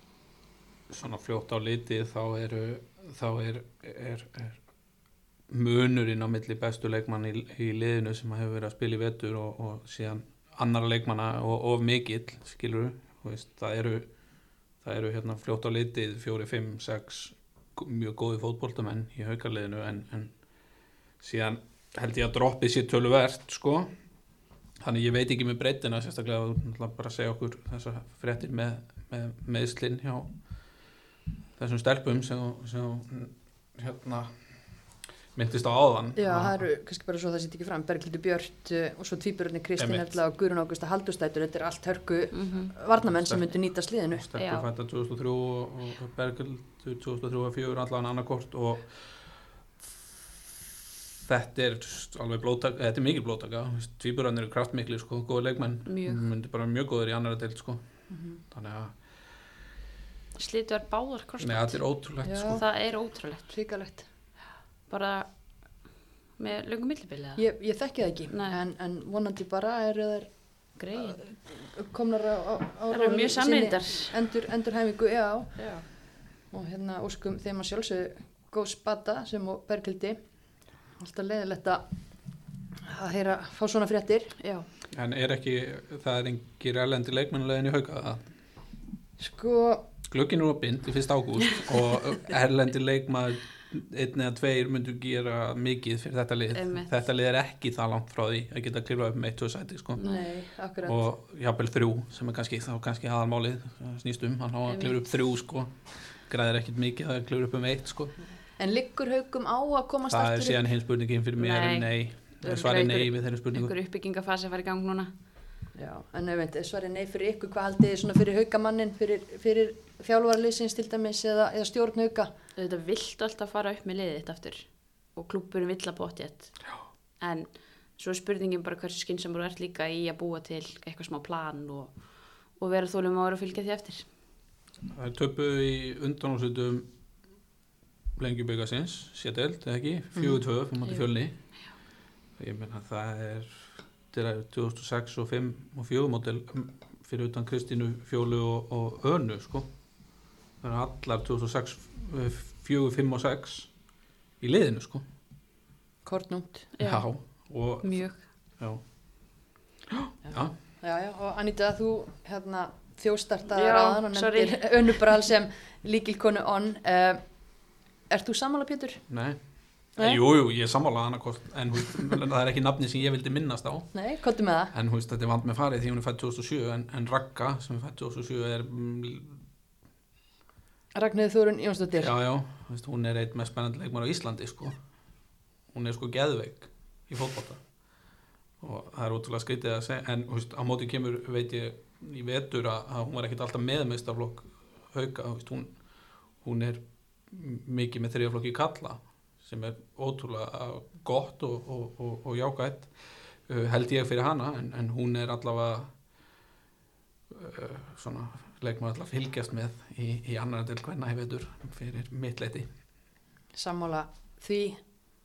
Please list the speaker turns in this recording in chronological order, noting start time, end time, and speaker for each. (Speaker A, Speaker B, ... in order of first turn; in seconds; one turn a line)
Speaker A: 0.9-4.6
Speaker A: 5.5-14.1
Speaker A: 14.8-20.3
Speaker A: 21.2-23.9
Speaker A: 24.8-30.3
Speaker A: 31.6-34.5
Speaker A: 35.3-36.6
Speaker B: 36.1-44.2
Speaker A: 39.8-40.1
Speaker C: 42.3-42.7
Speaker A: 43.0-43.6
Speaker A: 44.1-49.4
Speaker C: 44.3-44.6
Speaker A: 51.2-57.8
Speaker C: 55.9-56.2
Speaker B: 58.1-58.4
Speaker A: 58.4-59.0
Speaker C: 60.4-63.5
Speaker A: 61.4-62.6
Speaker B: 62.2-62.6
Speaker B: 63.5-64.1
Speaker C: 64.9-65.8
Speaker C: 66.4-67.5
Speaker B: 67.3-76.0
Speaker C: 68.3-68.6
Speaker C: 70.8-71.2
Speaker C: 72.9-74.1
Speaker C: 75.6-75.8
Speaker B: 76.5-80.2
Speaker B: 81.0-81.8
Speaker B: 82.9-84.3
Speaker C: 84.4-84.7
Speaker A: 84.9-88.2
Speaker B: 89.2-89.9
Speaker A: 90.0-100.0
Speaker C: 96.5-96.9
Speaker B: 100.0-101.0
Speaker A: 100.8-108.1
Speaker C: 104.7-105.1
Speaker B: 108.6-110.6
Speaker A: 110.1-113.7
Speaker C: 111.4-115.1
Speaker B: 115.7-122.3
Speaker C: 122.6-126.6
Speaker C: 127.2-134.1
Speaker A: 134.9-136.9
Speaker A: 138.2-141.3
Speaker B: 140.1-140.4
Speaker A: 142.4-149.7
Speaker A: 150.6-153.7
Speaker A: 154.4-155.0
Speaker B: 156.0-156.7
Speaker C: 156.8-158.2
Speaker A: 156.8-159.3
Speaker A: 159.9-160.5
Speaker B: 160.2-167.5
Speaker C: 163.5-165.3
Speaker B: 168.1-169.0
Speaker A: 169.1-174.0
Speaker B: 173.9-174.7
Speaker A: 174.7-179.4
Speaker B: 180.9-182.1
Speaker A: 182.0-184.8
Speaker A: 185.7-187.6
Speaker A: 188.6-195.8
Speaker A: 196.4-205.9
Speaker A: 207.3-212.7
Speaker B: 213.5-214.8